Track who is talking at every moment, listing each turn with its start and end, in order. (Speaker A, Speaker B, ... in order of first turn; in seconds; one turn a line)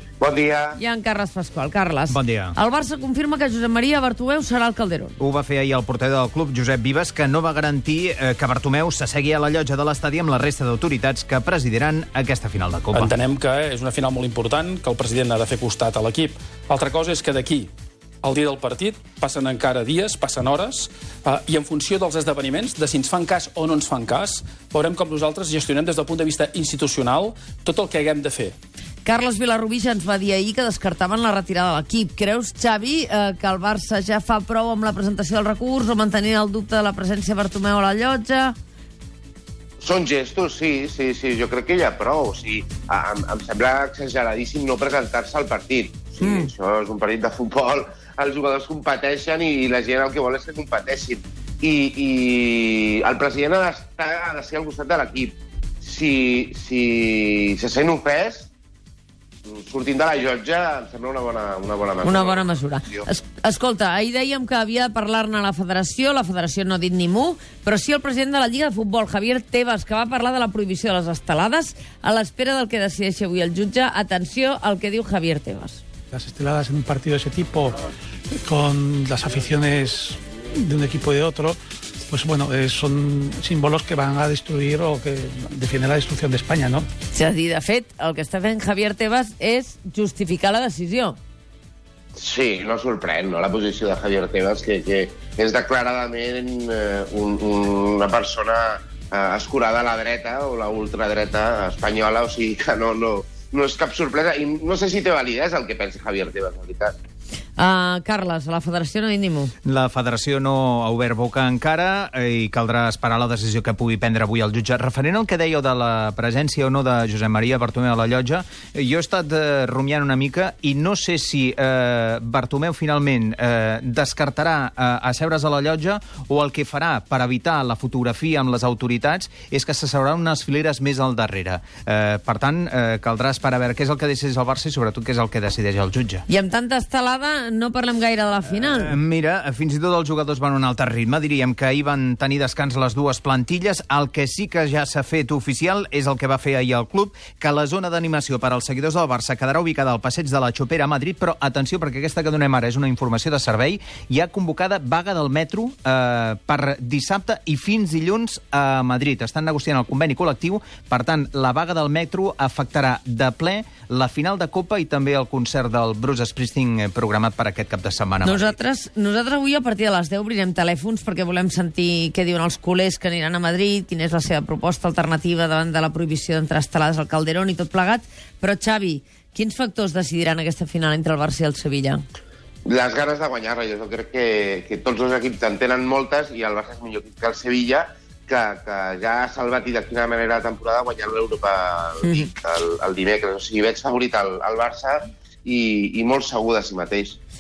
Speaker A: 0.2-0.8
Speaker B: 0.8-5.2
Speaker C: 2.1-2.5
Speaker C: 5.2-13.1
Speaker D: 12.9-17.7
Speaker D: 18.2-28.6
Speaker B: 29.1-38.5
Speaker A: 39.8-58.5
Speaker B: 46.2-46.5
Speaker A: 59.5-63.1
Speaker B: 62.0-75.8
Speaker E: 76.1-77.8
Speaker E: 78.4-81.6
Speaker E: 82.1-86.9
Speaker B: 87.1-91.2
Speaker A: 92.2-106.9
Speaker B: 107.6-109.5
Speaker C: 109.6-136.2
Speaker B: 136.3-139.0
Speaker C: 138.5-168.6
Speaker B: 168.2-182.0
Speaker A: 182.7-197.2
Speaker B: 192.0-192.3